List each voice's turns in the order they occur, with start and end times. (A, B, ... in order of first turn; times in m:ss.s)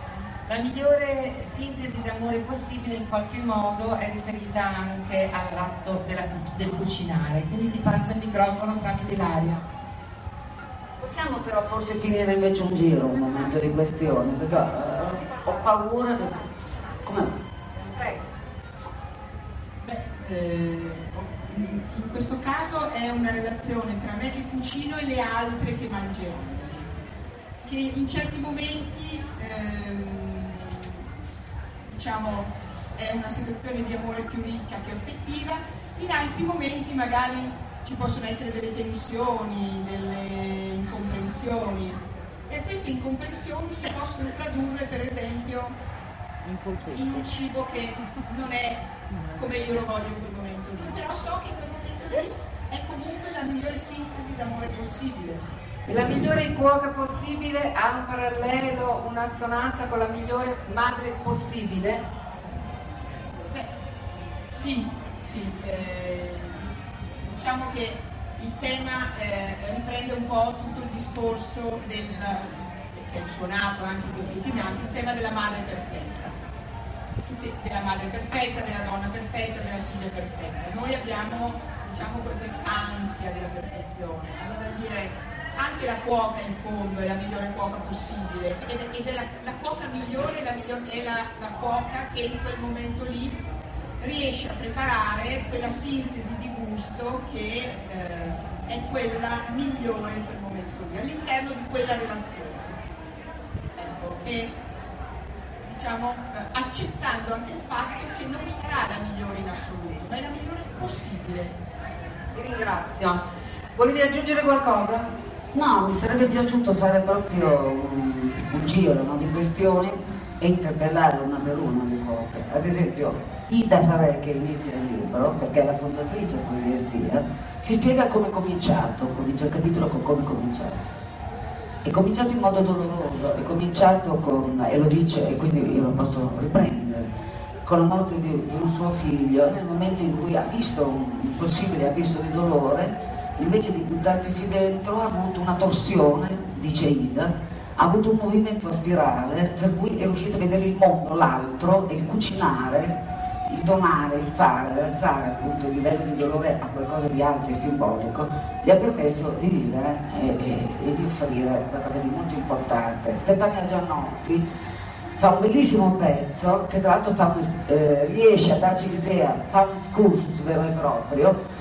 0:00.5-0:09.6 A
0:11.0-0:16.5 B
0:17.0-0:17.4 B
0:17.8-0:18.2 A
0:19.8-0:26.9 C
0:27.6-0:31.0 C
0:31.9-0:45.8 C
0:46.8-0:55.4 C
0:55.9-1:02.0 A
1:04.5-1:06.7 C
1:07.3-1:16.3 C
1:17.2-1:33.4 C
1:34.0-1:42.7 C
1:43.8-1:44.5 C
1:45.7-1:51.5 C
1:52.4-1:53.2 A
1:53.8-1:55.1 A
1:55.5-2:10.8 B
2:11.8-2:17.1 B
2:17.6-2:44.4 B
2:45.2-2:51.4 B